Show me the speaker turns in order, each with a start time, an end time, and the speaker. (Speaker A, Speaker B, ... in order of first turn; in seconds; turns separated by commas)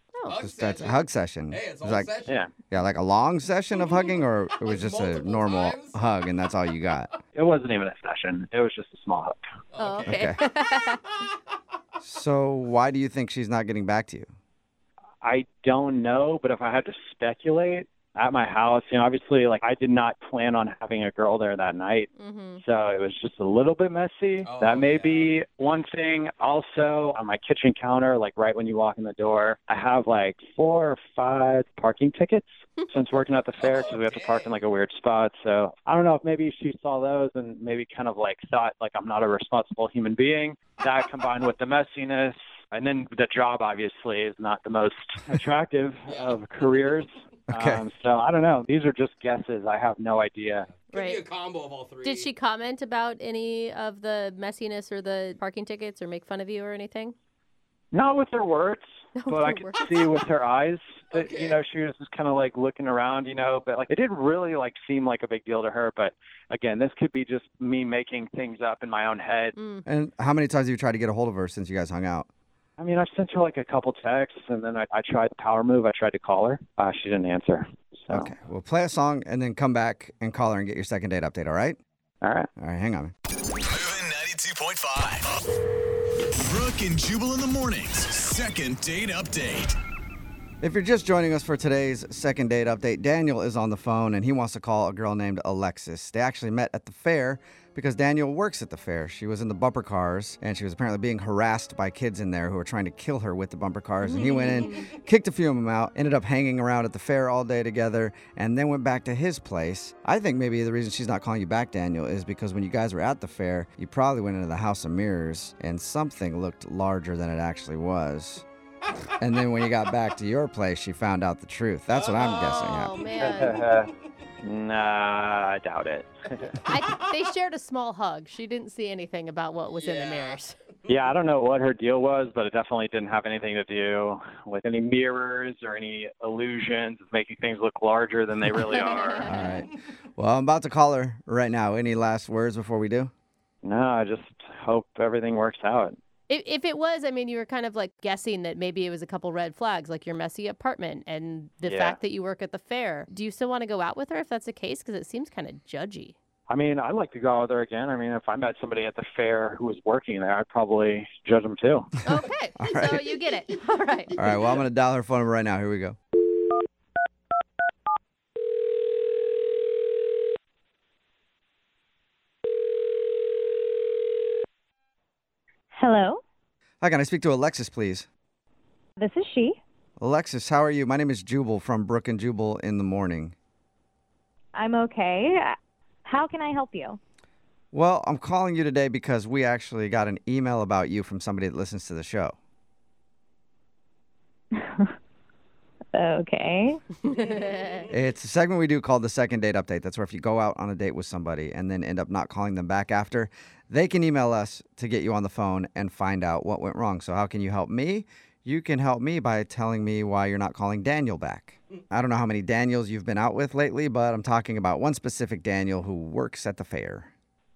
Speaker A: 0.1-0.4, Speaker B: 0.3-2.4, Speaker C: 0.4-2.1, Speaker C: 2.6-7.1, Speaker B: 3.7-6.0, Speaker D: 7.3-9.4, Speaker B: 9.7-10.3, Speaker A: 9.8-11.3, Speaker C: 10.0-10.4, Speaker C: 12.0-14.3, Speaker D: 15.2-50.7, Speaker A: 22.1-22.6, Speaker B: 24.4-25.3, Speaker B: 33.6-34.6, Speaker B: 46.1-47.0, Speaker C: 47.5-47.8, Speaker B: 50.9-52.3, Speaker A: 50.9-51.2, Speaker A: 52.0-57.1, Speaker D: 57.9-69.5, Speaker A: 59.1-60.1, Speaker B: 61.1-61.6, Speaker A: 69.5-69.8, Speaker C: 69.8-72.3, Speaker D: 72.8-78.3, Speaker C: 78.1-81.8, Speaker D: 82.2-82.5, Speaker C: 82.6-83.1, Speaker E: 83.6-85.3, Speaker E: 86.4-89.8, Speaker C: 90.6-118.4, Speaker A: 104.0-104.8, Speaker C: 119.2-122.9, Speaker B: 121.9-124.1, Speaker A: 122.3-123.6, Speaker D: 123.2-123.9, Speaker D: 124.4-126.6, Speaker A: 126.7-130.6, Speaker B: 129.7-130.9, Speaker D: 130.9-139.3, Speaker A: 138.5-139.6, Speaker C: 139.3-143.1, Speaker D: 143.6-146.0, Speaker A: 146.3-156.2, Speaker D: 151.6-152.0, Speaker D: 156.5-161.9, Speaker A: 162.0-164.4, Speaker C: 162.6-163.0, Speaker C: 164.2-166.0, Speaker F: 175.7-176.2, Speaker C: 176.8-178.1, Speaker F: 179.0-179.6, Speaker C: 180.0-183.3, Speaker F: 184.5-185.5, Speaker F: 186.0-187.0, Speaker C: 187.7-192.3, Speaker F: 194.5-194.9, Speaker F: 195.9-196.8, Speaker A: 197.0-197.8, Speaker C: 197.9-217.1